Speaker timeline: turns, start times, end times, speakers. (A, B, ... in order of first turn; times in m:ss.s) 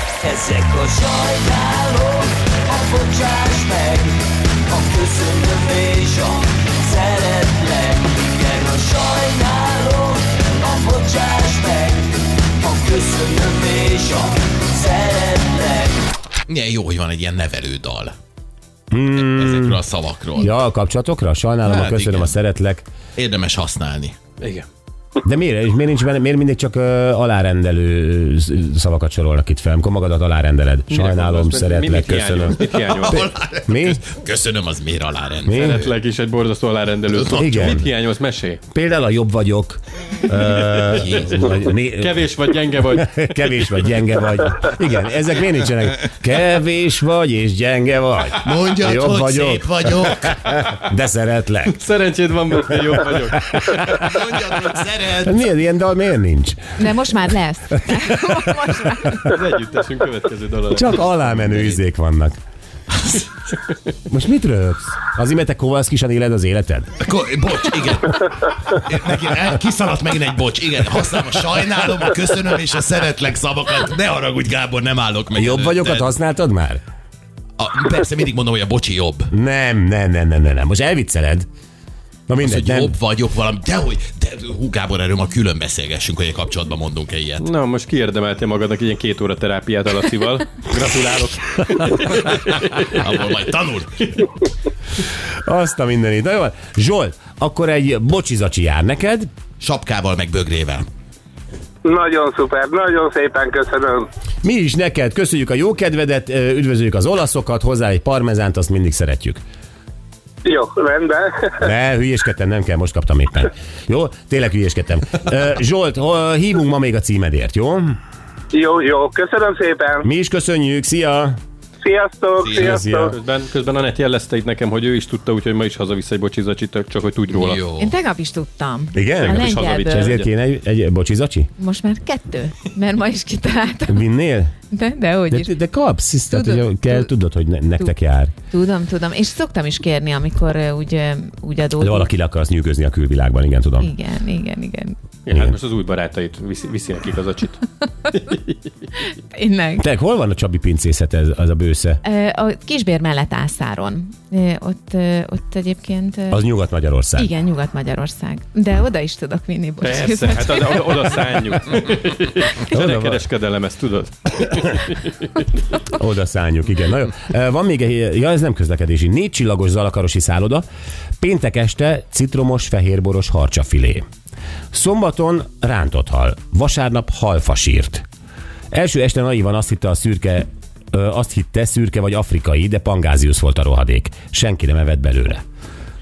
0:00.2-0:04.2 A
0:04.7-0:12.1 A
0:12.6-0:16.0 A
0:16.5-0:18.1 B
0:18.9-0:19.8 C
0:19.1-0:20.5 B
0:20.4-0:22.8 C
0:21.6-0:22.4 B
0:23.2-0:24.2 B
0:24.4-0:24.6 D
0:25.2-0:32.6 C
0:30.9-0:33.3 D
0:32.7-0:35.9 B
0:33.7-0:34.0 C
0:35.5-0:35.8 C
0:35.5-0:38.6 D
0:37.1-0:37.5 B
0:37.3-0:37.9 C
0:38.7-0:42.3 C
0:40.9-0:41.5 B
0:41.9-0:43.9 D
0:42.9-0:51.8 C
0:48.4-0:50.5 B
0:51.6-0:53.8 D
0:53.6-0:54.0 C
0:53.9-0:55.5 B
0:55.2-0:56.9 C
0:56.8-0:59.2 E
0:59.2-1:01.8 D
1:00.7-1:02.4 C
1:04.1-1:06.9 C
1:07.0-1:16.1 B
1:15.3-1:16.8 C
1:17.6-1:19.3 B
1:19.3-1:21.5 C
1:22.3-1:23.0 C
1:22.4-1:27.4 B
1:27.4-1:32.2 D
1:32.2-1:34.3 B
1:35.4-1:39.3 C
1:39.6-1:40.8 B
1:41.8-1:44.1 F
1:44.4-1:49.4 C
1:50.4-1:51.5 F
1:51.6-1:58.0 C
1:58.5-2:00.0 F
2:00.0-2:01.4 C
2:01.8-2:03.1 F
2:02.6-2:03.2 C
2:02.9-2:07.6 D
2:07.3-2:07.9 B
2:07.8-2:10.2 E
2:08.9-2:11.5 C
2:09.2-2:10.3 D
2:11.6-2:14.1 E
2:13.9-2:14.5 C
2:14.7-2:15.5 E
2:15.3-2:18.3 C
2:16.3-2:17.1 E
2:18.5-2:22.1 E
2:21.8-2:23.9 C
2:23.8-2:25.0 E
2:25.2-2:27.6 D
2:28.1-2:28.5 D
2:29.3-2:29.8 E
2:29.8-2:32.0 C
2:32.0-2:36.4 E
2:36.3-2:37.3 C
2:37.2-2:41.1 E
2:39.8-2:45.4 D
2:42.7-2:43.2 C
2:45.8-2:50.6 C
2:51.2-2:54.0 C
2:54.7-2:58.0 C
2:58.7-3:05.4 C